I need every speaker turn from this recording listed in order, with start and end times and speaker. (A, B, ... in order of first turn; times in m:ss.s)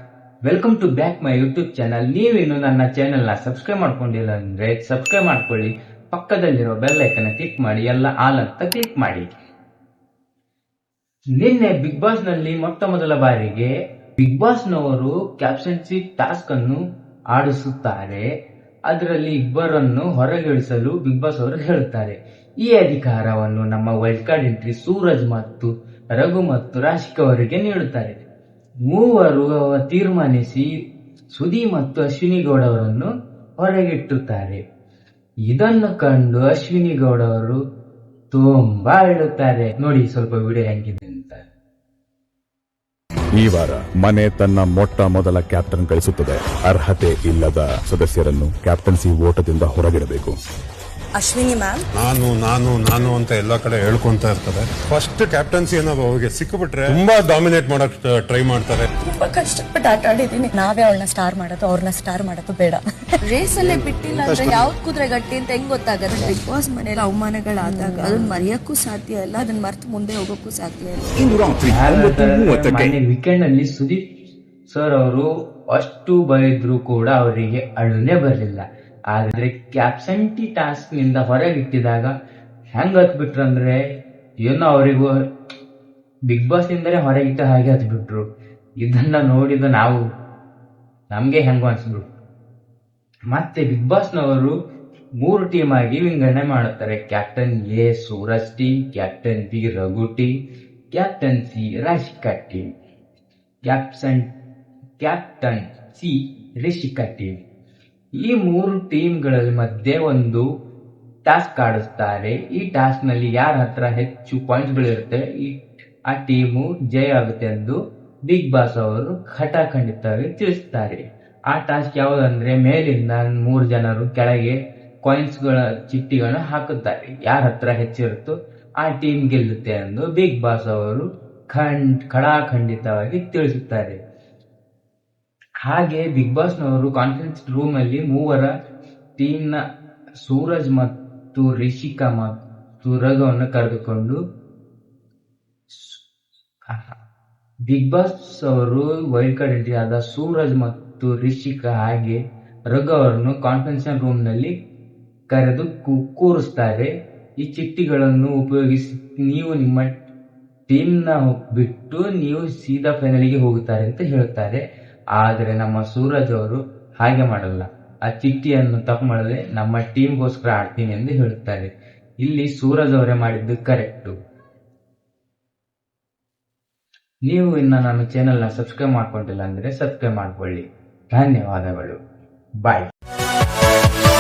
0:00.4-0:09.3 A
0:11.4-0:16.8 A
0:17.3-0:18.2 A
0:18.9-0:28.2 A
0:28.9-0:30.7 A
0:31.4-0:34.6 A
0:35.5-0:37.6 A
0:38.3-0:41.4 A
0:43.4-0:50.3 B
0:51.2-0:51.8 C
0:52.0-0:58.9 D
0:59.0-1:03.1 C
1:03.2-1:11.3 E
1:04.2-1:04.6 D
1:07.6-1:08.3 C
1:11.2-1:12.9 B
1:11.6-1:14.0 A
1:14.7-1:22.1 A
1:22.8-1:23.8 A
1:24.4-1:25.1 A
1:26.3-1:28.2 A
1:28.8-1:30.0 A
1:31.1-1:32.0 A
1:33.3-1:34.5 A
1:35.2-1:40.4 A
1:40.9-1:42.7 A
1:43.6-1:44.3 A
1:45.0-1:47.4 A
1:48.2-1:50.5 A
1:51.2-2:14.0 A
2:15.6-2:18.5 A
2:19.2-2:19.6 A
2:20.2-2:24.2 A
2:25.7-2:26.0 A
2:26.7-2:27.0 A
2:27.7-2:34.5 A
2:35.3-2:39.9 A
2:40.7-2:44.6 A
2:45.2-2:51.7 A
2:52.2-2:54.1 A
2:57.3-3:02.0 A
3:02.6-3:02.9 A